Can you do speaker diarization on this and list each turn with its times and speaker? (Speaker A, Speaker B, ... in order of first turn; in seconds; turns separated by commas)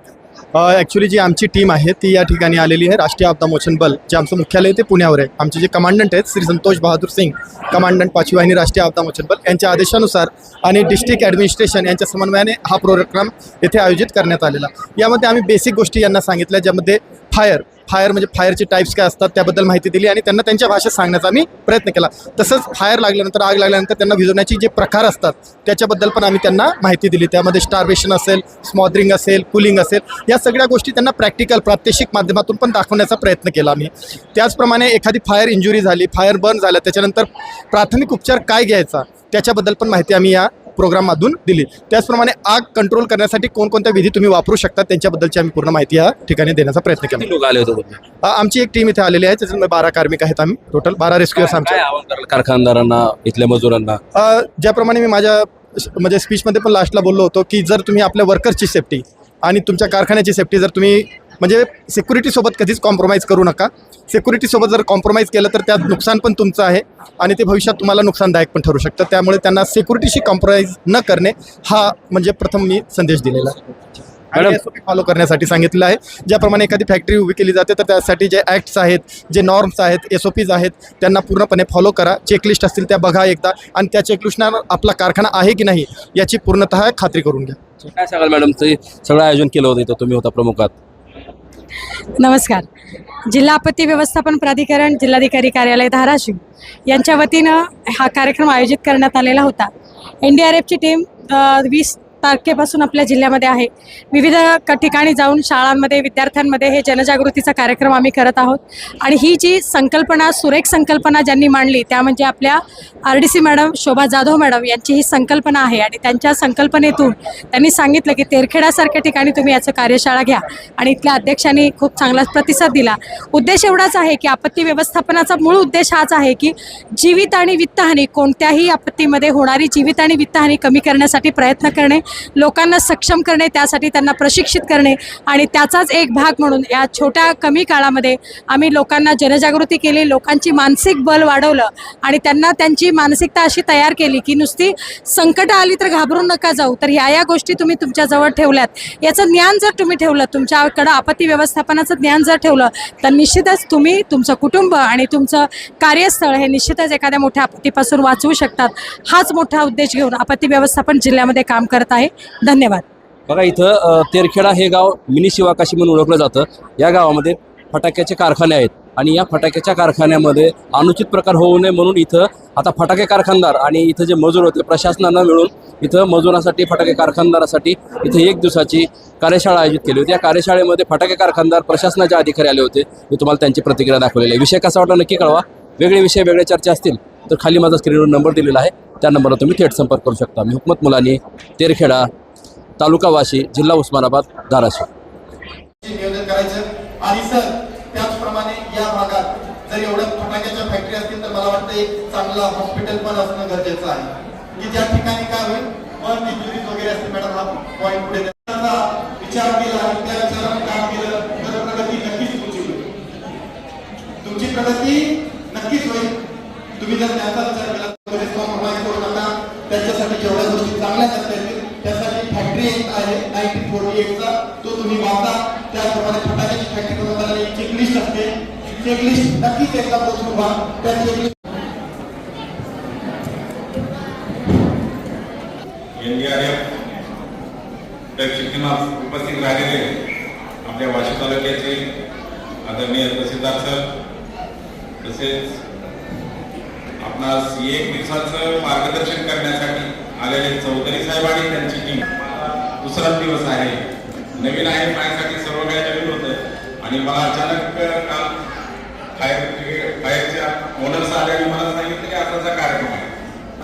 Speaker A: 0.5-47.2, Speaker B: 47.2-48.0, Speaker A: 48.2-51.8, Speaker B: 51.3-54.0, Speaker A: 54.1-73.5, Speaker A: 74.3-87.6, Speaker B: 87.8-90.7, Speaker C: 92.2-92.7, Speaker C: 93.3-99.7, Speaker C: 100.2-162.8, Speaker B: 163.3-192.1, Speaker B: 192.8-194.9, Speaker A: 195.8-212.8, Speaker A: 214.2-216.2, Speaker A: 216.7-231.4, Speaker D: 235.9-236.6, Speaker D: 238.2-239.9, Speaker D: 240.6-241.9, Speaker D: 242.6-243.9, Speaker D: 245.0-245.6, Speaker D: 247.0-253.8, Speaker D: 254.4-258.3, Speaker D: 259.1-263.1